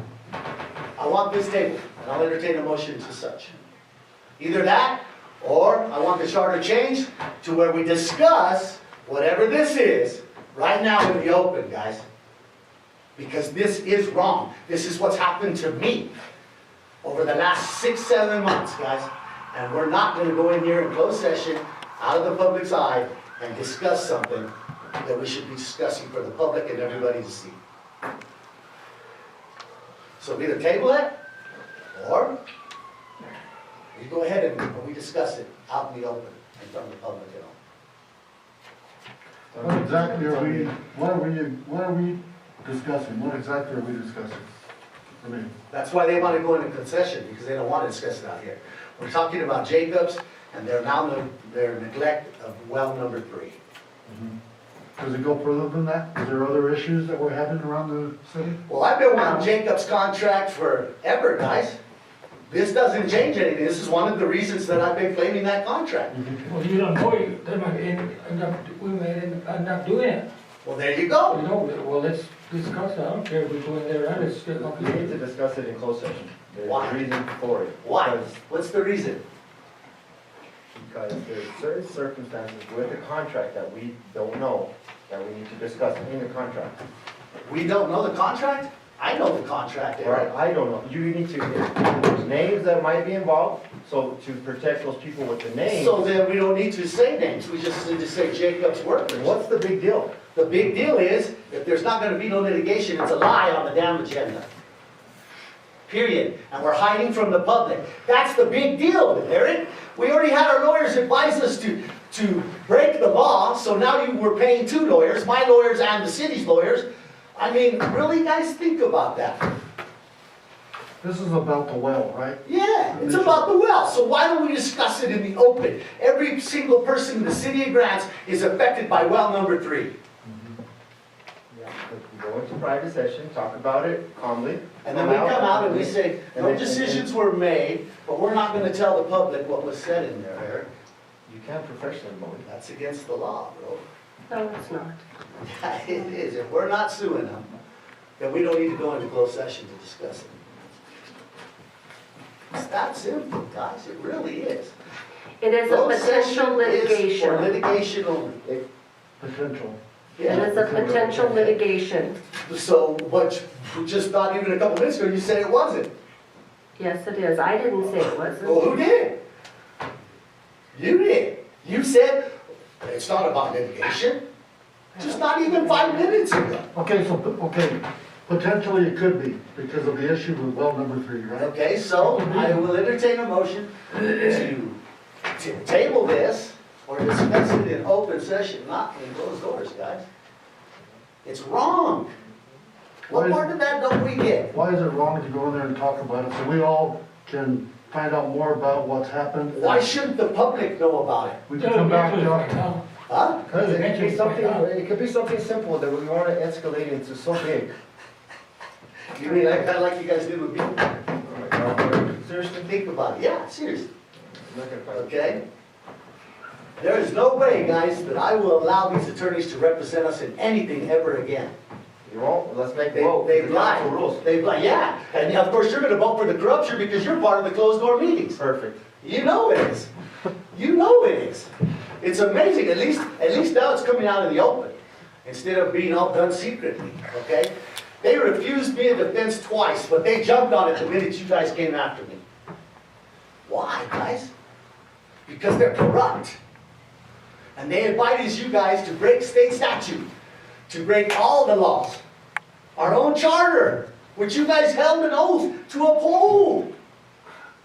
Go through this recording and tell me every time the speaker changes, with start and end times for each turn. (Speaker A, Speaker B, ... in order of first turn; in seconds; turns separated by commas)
Speaker A: 1.0-3.5, Speaker A: 4.4-12.0, Speaker A: 13.2-16.1, Speaker A: 17.0-27.6, Speaker A: 30.2-31.1, Speaker A: 31.9-32.3, Speaker A: 33.9-37.5, Speaker B: 39.5-40.7, Speaker C: 39.6-44.5, Speaker C: 45.2-45.5, Speaker A: 45.7-53.6, Speaker C: 54.0-54.3, Speaker C: 55.0-58.6, Speaker A: 58.6-61.8, Speaker A: 62.5-66.2, Speaker C: 66.1-66.5, Speaker D: 66.5-70.2, Speaker E: 67.9-69.5, Speaker A: 70.6-71.4, Speaker E: 71.3-71.6, Speaker D: 71.5-74.7, Speaker E: 72.2-72.7, Speaker E: 74.1-75.1, Speaker B: 74.1-78.4, Speaker A: 76.6-77.0, Speaker A: 77.8-79.2, Speaker B: 80.7-86.8, Speaker A: 87.4-90.3, Speaker B: 90.0-96.0, Speaker A: 95.7-99.3, Speaker B: 99.1-100.2, Speaker A: 100.3-104.5, Speaker A: 105.9-119.5, Speaker C: 121.0-123.5, Speaker A: 122.4-129.9, Speaker C: 130.2-130.5, Speaker B: 131.5-137.1, Speaker A: 134.8-140.7, Speaker B: 141.2-142.4, Speaker A: 142.4-143.8, Speaker E: 144.3-145.0, Speaker A: 145.4-147.5, Speaker A: 148.2-150.4, Speaker A: 152.5-154.7, Speaker E: 155.4-157.5, Speaker A: 155.7-158.4, Speaker C: 159.2-159.8, Speaker A: 160.2-160.5, Speaker B: 160.2-161.6, Speaker E: 160.2-162.2, Speaker C: 160.4-160.9, Speaker A: 162.4-165.9, Speaker E: 166.8-168.6, Speaker A: 168.4-169.2, Speaker A: 170.7-174.2, Speaker A: 175.0-176.7, Speaker E: 175.0-175.9, Speaker C: 176.7-181.5, Speaker A: 181.3-184.8, Speaker A: 185.3-190.0, Speaker A: 191.2-192.1, Speaker A: 193.1-194.5, Speaker C: 193.1-193.4, Speaker C: 194.5-200.0, Speaker A: 199.5-201.4, Speaker C: 201.5-202.6, Speaker D: 201.6-202.8, Speaker A: 203.1-203.4, Speaker B: 203.5-207.7, Speaker E: 203.5-204.6, Speaker A: 209.1-211.0, Speaker B: 211.2-212.7, Speaker A: 212.6-213.9, Speaker B: 214.3-215.4, Speaker A: 214.9-215.4, Speaker A: 216.8-221.5, Speaker B: 222.0-224.3, Speaker A: 222.9-228.4, Speaker B: 228.4-228.8, Speaker A: 229.0-229.9, Speaker A: 230.5-242.2, Speaker A: 243.4-244.3, Speaker A: 245.2-246.4, Speaker A: 247.6-250.1, Speaker A: 250.7-252.0, Speaker A: 252.7-256.7